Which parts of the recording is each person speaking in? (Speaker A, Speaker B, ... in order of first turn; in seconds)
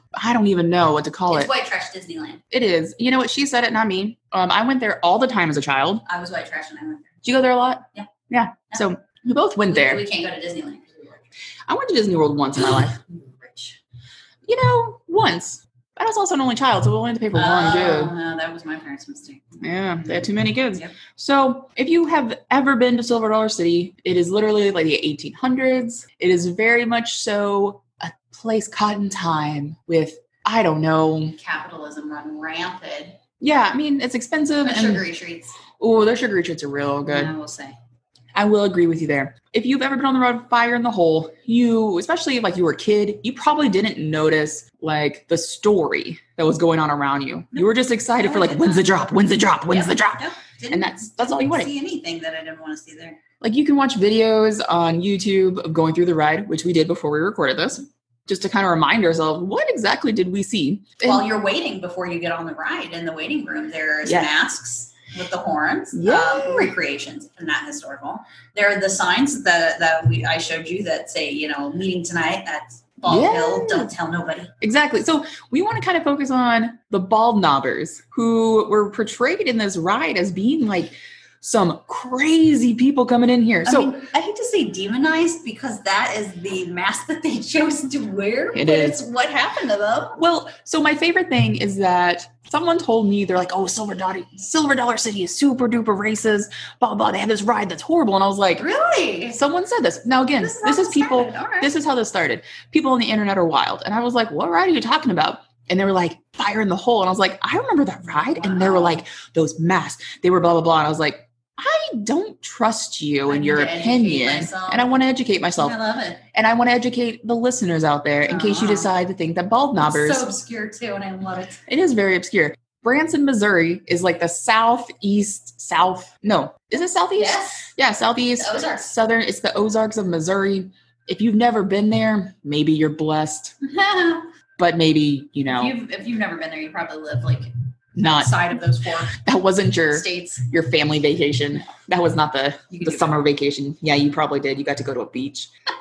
Speaker A: 0.1-1.5, 2.5-6.0, 7.2-10.0, 11.7-13.0, 14.5-18.1, 19.6-31.4, 33.4-35.0, 35.8-37.3, 38.3-51.7, 53.4-61.2, 64.0-64.3, 65.9-66.7, 73.1-73.9, 74.6-83.9, 88.5-89.0, 90.2-98.7, 99.3-115.7, 116.3-120.2, 121.7-133.5, 134.6-135.7, 137.9-138.5, 139.1-145.5
Speaker B: 1.3-2.4, 6.0-7.1, 9.7-11.3, 13.1-13.8, 17.3-19.5, 31.4-33.2, 34.6-35.6, 37.0-37.8, 47.5-53.2, 61.0-74.5, 83.7-90.2, 98.6-99.4, 100.4-101.7, 108.1-109.0, 113.3-114.9, 115.5-116.2, 118.2-118.9, 119.8-121.6, 127.2-127.7, 128.4-128.9, 133.6-134.3, 135.5-139.2, 139.9-140.4, 142.7-143.1